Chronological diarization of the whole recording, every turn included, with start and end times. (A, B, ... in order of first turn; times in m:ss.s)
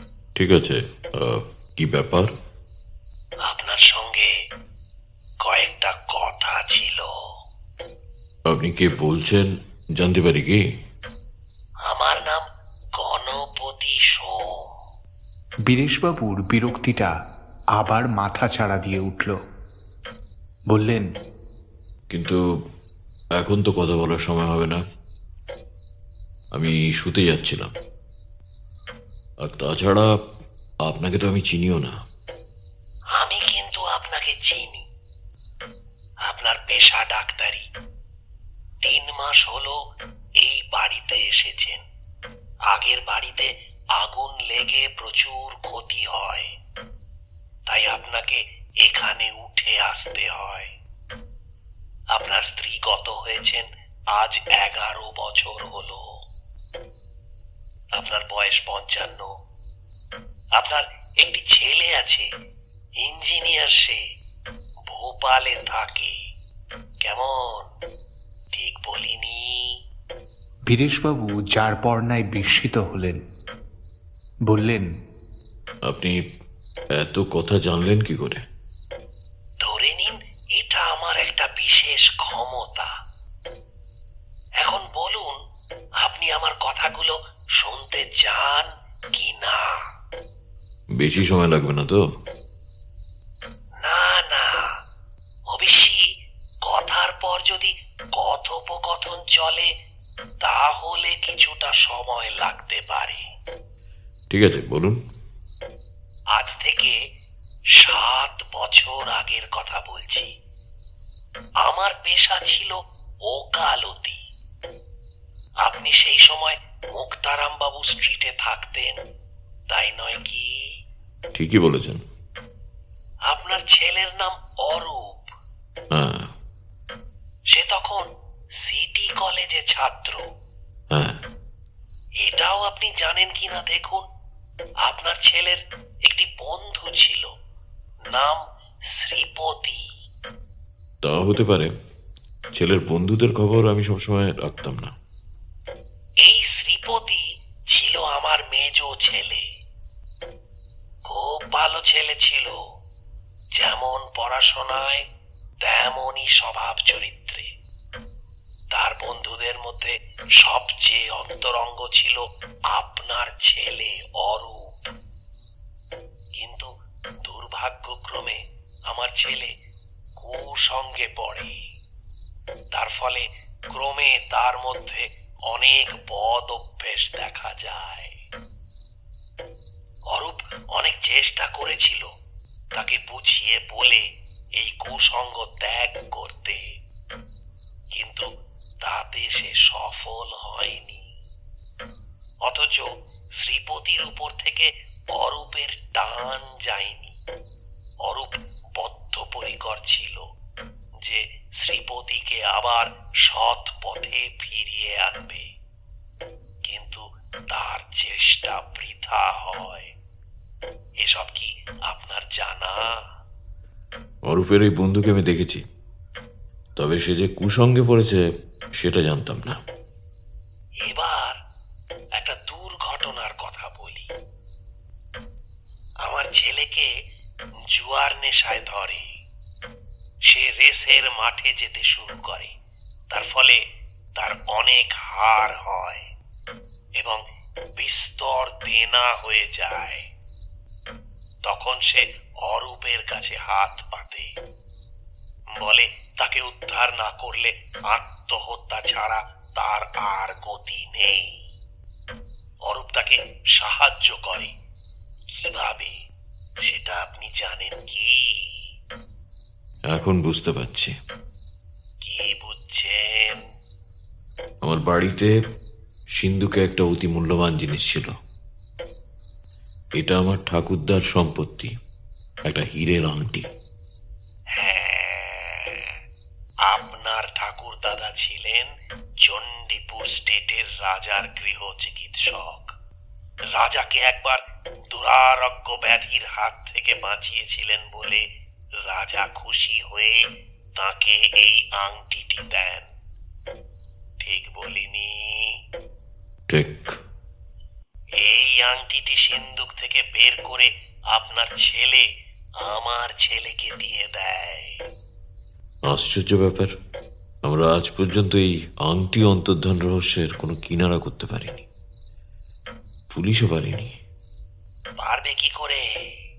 0:00.4-0:02.3 A
0:03.5-0:04.3 B
0:05.4-0:07.1 B
0:08.5-0:10.6 A
0:11.9-0:12.4 B
0:13.0-0:14.8 B
0:15.7-0:17.1 C
0:17.8-0:19.4 C
0:20.7-0:21.1 C
0:22.1-0:22.4 A
0:23.4-0:24.8 A
0:26.6-0:27.7 A
0:29.4-0:30.1 A
0:30.8-0:31.9 A
0:33.2-0:34.9 B
0:36.3-0:37.6 B
0:38.8-0:39.8 B
0:40.4-0:41.8 B
0:42.7-0:46.5 B
0:47.7-0:50.7 B
0:52.2-0:56.0 B
0:58.0-0:59.3 B
1:00.6-1:02.3 B
1:03.0-1:04.0 B
1:04.9-1:06.1 B
1:07.0-1:07.7 B
1:08.6-1:09.7 B
1:10.7-1:13.2 C
1:14.5-1:14.9 C
1:15.9-1:16.1 A
1:17.0-1:18.4 A
1:19.6-1:22.9 B
1:24.6-1:25.4 B
1:26.0-1:29.8 B
1:31.0-1:32.0 A
1:33.8-1:34.7 B
1:35.5-1:36.0 B
1:36.6-1:39.7 B
1:40.4-1:43.2 B
1:44.3-1:45.0 A
1:46.3-1:47.0 B
1:47.8-1:50.3 B
1:51.6-1:52.7 B
1:53.3-1:54.2 B
1:55.6-1:59.0 B
1:59.7-2:00.5 B
2:01.3-2:02.0 A
2:03.3-2:05.3 B
2:05.9-2:06.3 A
2:07.5-2:08.1 B
2:08.6-2:10.2 B
2:10.9-2:11.2 A
2:12.2-2:14.0 B
2:14.8-2:17.3 B
2:18.1-2:18.4 B
2:18.9-2:19.8 B
2:21.0-2:21.7 A
2:22.5-2:24.9 A
2:26.2-2:29.4 B
2:31.1-2:32.6 B
2:33.6-2:35.0 B
2:35.6-2:37.5 B
2:38.7-2:44.9 B
2:46.4-2:46.7 B
2:47.2-2:49.5 B
2:50.2-2:51.5 B
2:52.7-2:58.2 B
3:00.1-3:02.1 B
3:02.8-3:04.0 B
3:04.6-3:06.6 B
3:07.9-3:08.2 B
3:08.8-3:11.0 B
3:12.5-3:12.9 B
3:13.4-3:17.2 B
3:18.1-3:20.2 B
3:21.0-3:25.4 B
3:26.6-3:29.9 B
3:31.0-3:32.8 B
3:34.3-3:35.6 A
3:36.8-3:38.2 A
3:38.8-3:39.6 A
3:40.9-3:41.4 B
3:42.2-3:44.1 B
3:46.0-3:46.9 B
3:47.7-3:49.0 B
3:50.3-3:52.5 B
3:53.1-3:53.6 B
3:54.2-3:56.0 B
3:57.8-4:00.0 B
4:01.4-4:04.3 B
4:05.6-4:11.4 B
4:12.7-4:14.5 B
4:15.3-4:15.9 B
4:16.7-4:18.7 B
4:19.9-4:20.9 A
4:22.0-4:23.4 B
4:24.6-4:25.3 A
4:26.2-4:28.1 A
4:30.0-4:31.7 A
4:32.5-4:33.4 A
4:34.6-4:36.0 B
4:36.7-4:38.7 B
4:39.2-4:42.7 B
4:43.5-4:48.2 B
4:48.9-4:50.2 B
4:50.8-4:52.9 B
4:54.2-4:55.6 B
4:56.5-4:56.9 A
4:58.2-5:02.1 B
5:02.6-5:04.8 B
5:05.9-5:06.7 A
5:07.4-5:11.7 A
5:13.1-5:13.9 A
5:15.0-5:15.8 B